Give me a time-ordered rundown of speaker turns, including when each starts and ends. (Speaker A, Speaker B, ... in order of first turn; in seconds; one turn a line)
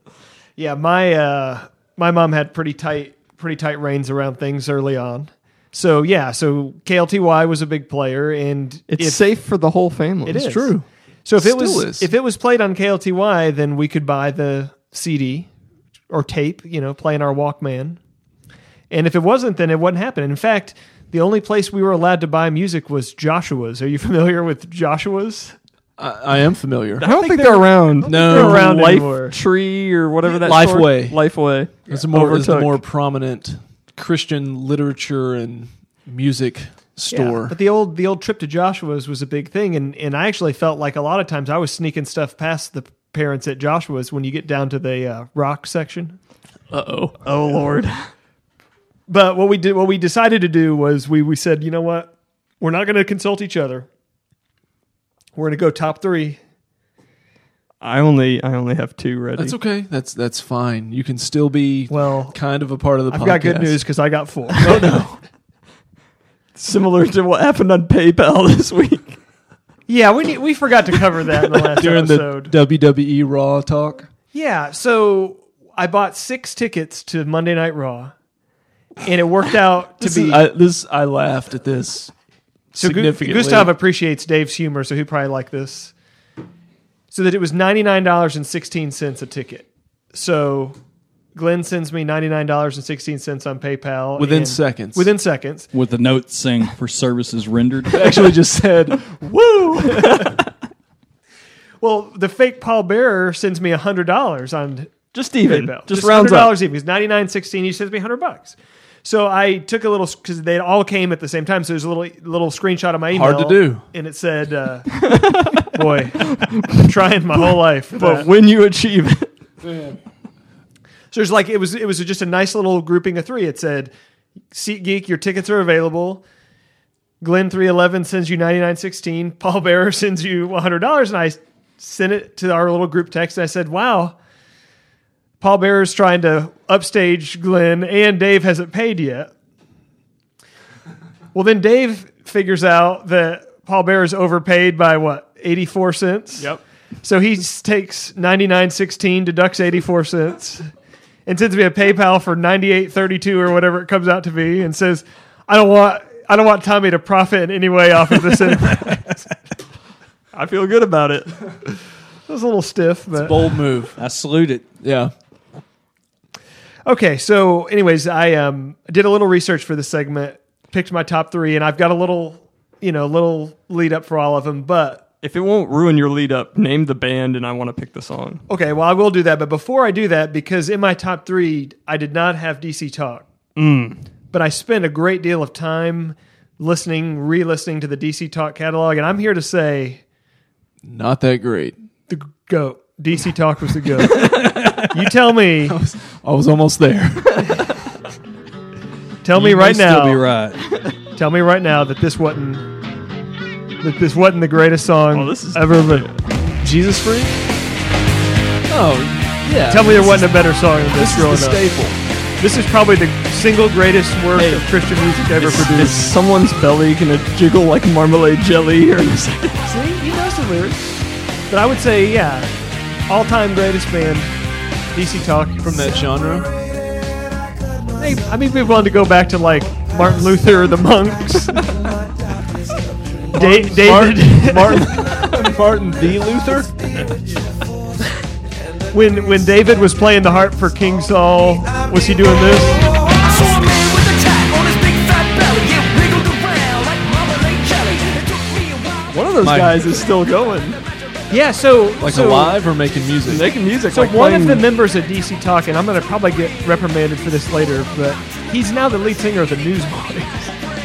Speaker A: 0.6-9.2
Speaker B: 8.9-10.4
Speaker A: 10.2-15.5
Speaker C: 10.3-10.8
Speaker C: 11.4-12.1
Speaker A: 16.1-18.0
Speaker A: 18.9-25.5
Speaker C: 26.0-27.1
Speaker B: 27.0-32.7
Speaker A: 27.1-29.4
Speaker C: 28.1-28.8
Speaker C: 30.2-31.2
Speaker C: 31.9-37.5
Speaker A: 37.1-46.2
Speaker C: 46.7-47.2
Speaker B: 47.2-48.0
Speaker A: 49.1-53.9
Speaker A: 55.4-56.4
Speaker B: 57.8-59.5
Speaker C: 59.4-63.8
Speaker A: 61.9-62.4
Speaker A: 63.1-64.9
Speaker C: 64.6-65.2
Speaker B: 66.5-69.2
Speaker A: 69.9-72.5
Speaker C: 71.8-74.1
Speaker A: 74.3-78.1
Speaker A: 79.0-80.4
Speaker C: 80.0-82.1
Speaker C: 82.7-83.7
Speaker A: 82.8-85.9
Speaker A: 87.1-90.8
Speaker A: 91.3-95.7
Speaker C: 94.2-95.1
Speaker D: 95.7-98.1
Speaker C: 97.9-99.1
Speaker B: 99.0-100.5
Speaker A: 101.8-115.0
Speaker B: 105.1-106.6
Speaker C: 113.1-113.8
Speaker B: 115.0-115.7
Speaker A: 115.6-118.3
Speaker B: 116.3-116.8
Speaker B: 117.9-119.3
Speaker C: 119.6-120.0
Speaker A: 121.1-123.9
Speaker A: 124.5-126.2
Speaker A: 127.2-134.2
Speaker A: 135.4-139.3
Speaker A: 141.3-146.5
Speaker A: 147.0-150.7
Speaker A: 151.2-159.2
Speaker B: 160.3-161.3
Speaker A: 162.3-163.6
Speaker C: 163.1-164.0
Speaker D: 164.0-164.6
Speaker C: 164.8-165.1
Speaker A: 166.8-175.0
Speaker B: 175.2-178.4
Speaker A: 178.5-183.2
Speaker B: 183.6-184.0
Speaker A: 184.3-190.0
Speaker C: 190.8-191.8
Speaker A: 192.1-195.8
Speaker D: 194.2-194.8
Speaker C: 195.7-197.6
Speaker A: 199.2-200.2
Speaker D: 199.3-200.6
Speaker A: 201.2-202.7
Speaker A: 203.8-206.1
Speaker B: 205.1-206.2
Speaker C: 206.6-207.4
Speaker C: 208.7-212.0
Speaker A: 209.7-211.7
Speaker A: 212.4-215.9
Speaker B: 214.3-214.7
Speaker C: 215.4-216.1
Speaker B: 215.6-219.6
Speaker A: 219.6-222.5
Speaker A: 223.1-224.3
Speaker A: 224.9-225.7
Speaker C: 225.6-226.5
Speaker A: 228.0-231.7
Speaker A: 233.3-234.9
Speaker C: 233.3-236.7
Speaker A: 238.9-242.8
Speaker E: 243.2-249.1
Speaker B: 249.1-250.8
Speaker D: 249.4-249.9
Speaker C: 249.4-249.7
Speaker A: 251.3-252.6
Speaker C: 252.0-253.5
Speaker B: 253.2-254.7
Speaker A: 253.9-260.5